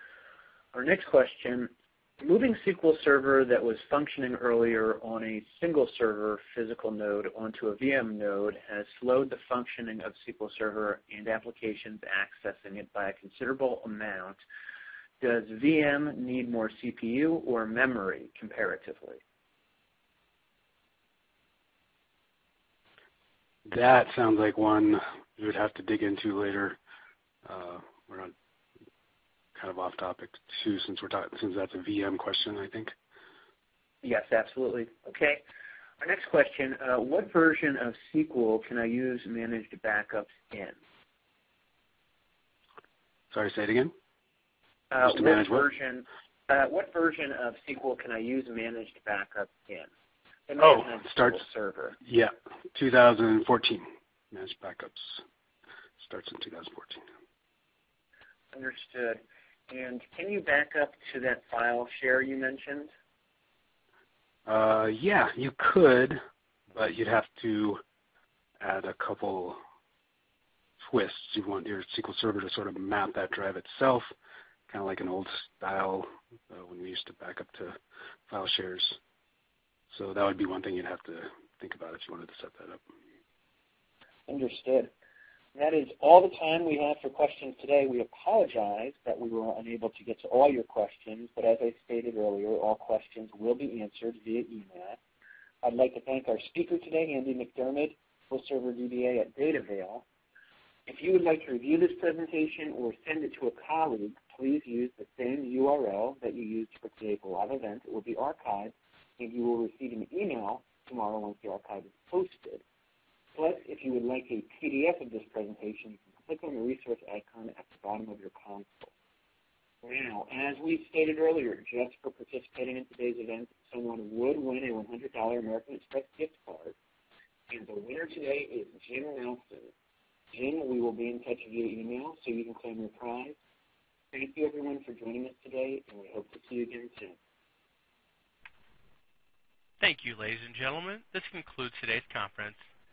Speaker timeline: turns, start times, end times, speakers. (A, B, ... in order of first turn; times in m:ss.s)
0:00.7-0:14.4 A
0:15.2-0:19.2 A
0:23.6-0:26.8 B
0:27.4-0:28.3 B
0:29.6-0:32.9 B
0:34.0-0:35.4 A
0:36.0-0:40.8 A
0:43.3-0:43.9 B
0:44.9-0:49.9 A
0:45.0-0:45.7 B
0:50.5-0:52.0 A
0:50.6-0:51.4 B
0:52.0-0:55.2 B
0:56.0-0:57.0 B
0:58.5-1:02.9 A
1:04.5-1:06.2 B
1:06.7-1:07.8 B
1:08.6-1:09.6 B
1:10.8-1:14.1 B
1:14.7-1:17.8 B
1:18.3-1:19.0 B
1:19.9-1:22.8 B
1:24.3-1:24.9 A
1:25.6-1:35.0 A
1:35.6-1:40.1 A
1:40.9-1:52.6 A
1:53.4-1:58.9 A
1:59.8-2:06.8 A
2:07.5-2:09.7 A
2:10.3-2:13.4 A
2:14.1-2:17.2 A
2:19.8-2:22.6 C